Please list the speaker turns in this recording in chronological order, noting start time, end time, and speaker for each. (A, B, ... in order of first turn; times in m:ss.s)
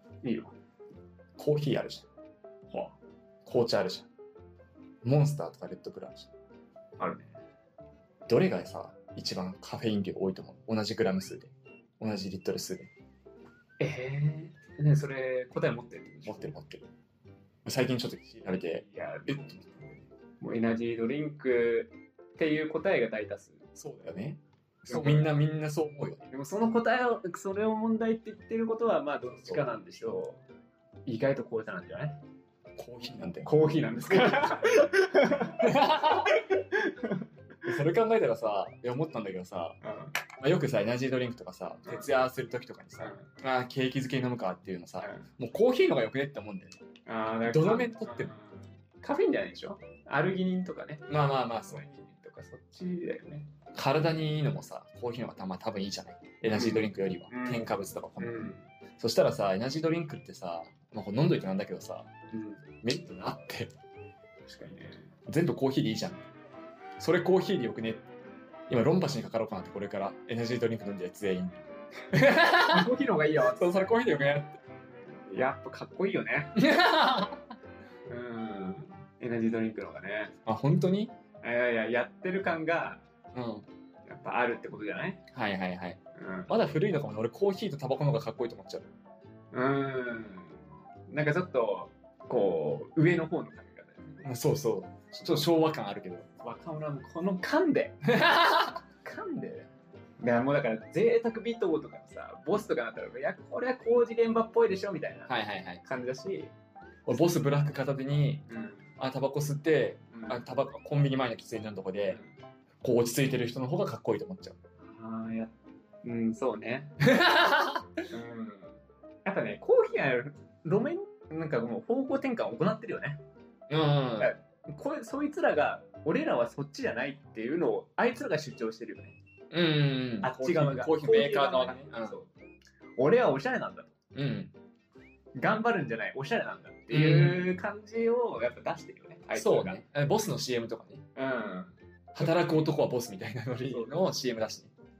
0:00.2-0:00.5 A
0:01.4-0:02.1 B
0:02.7-0:03.0 A
0:03.4-0:04.1 B
0:05.0-0:06.3 B
0:07.0-0:07.3 A
0:08.3-0:12.9 B
0:13.8-0:16.6 A
0:16.3-0:16.9 B
0:17.6-0:19.6 B
0:18.8-0:23.6 A
0:23.8-0:26.3 B
0:24.9-0:25.3 A
0:26.3-0:30.4 A
0:31.1-0:32.2 A
0:32.8-0:34.6 B
0:33.4-0:37.2 A
0:35.6-0:36.3 B
0:37.6-0:39.8 B
0:39.8-0:40.2 A
0:40.4-0:46.8 B
0:43.0-0:43.3 A
0:47.1-0:53.5 A
0:47.5-0:48.3 B
0:51.1-0:51.8 B
0:53.7-1:02.1 B
0:56.6-0:58.7 A
1:02.3-1:02.6 A
1:02.8-1:03.7 B
1:04.4-1:05.1 A
1:05.3-1:06.2 B
1:07.0-1:08.1 B
1:08.7-1:11.6 B
1:12.1-1:12.9 B
1:12.7-1:14.0 A
1:13.5-1:14.6 B
1:15.1-1:16.6 A
1:16.6-1:17.4 B
1:18.1-1:20.4 A
1:20.5-1:21.1 B
1:21.4-1:23.0 A
1:23.3-1:23.7 B
1:24.1-1:25.2 A
1:25.3-1:28.9 B
1:26.2-1:26.5 A
1:29.5-1:34.2 A
1:34.2-1:36.3 B
1:36.4-1:38.0 A
1:38.1-1:38.8 B
1:39.0-1:46.5 A
1:45.3-1:45.8 B
1:47.1-1:48.5 B
1:48.5-1:48.9 A
1:49.0-1:52.2 B
1:50.1-1:50.4 A
1:52.8-1:54.6 B
1:54.8-1:56.9 A
1:57.1-1:57.8 B
1:58.1-2:03.2 A
2:03.7-2:04.3 B
2:04.2-2:09.2 A
2:09.5-2:12.2 B
2:10.2-2:12.3 A
2:13.0-2:13.9 A
2:14.1-2:14.5 B
2:15.4-2:19.8 A
2:16.9-2:17.5 B
2:19.4-2:21.1 B
2:21.2-2:22.7 A
2:22.2-2:24.7 B
2:23.6-2:24.1 A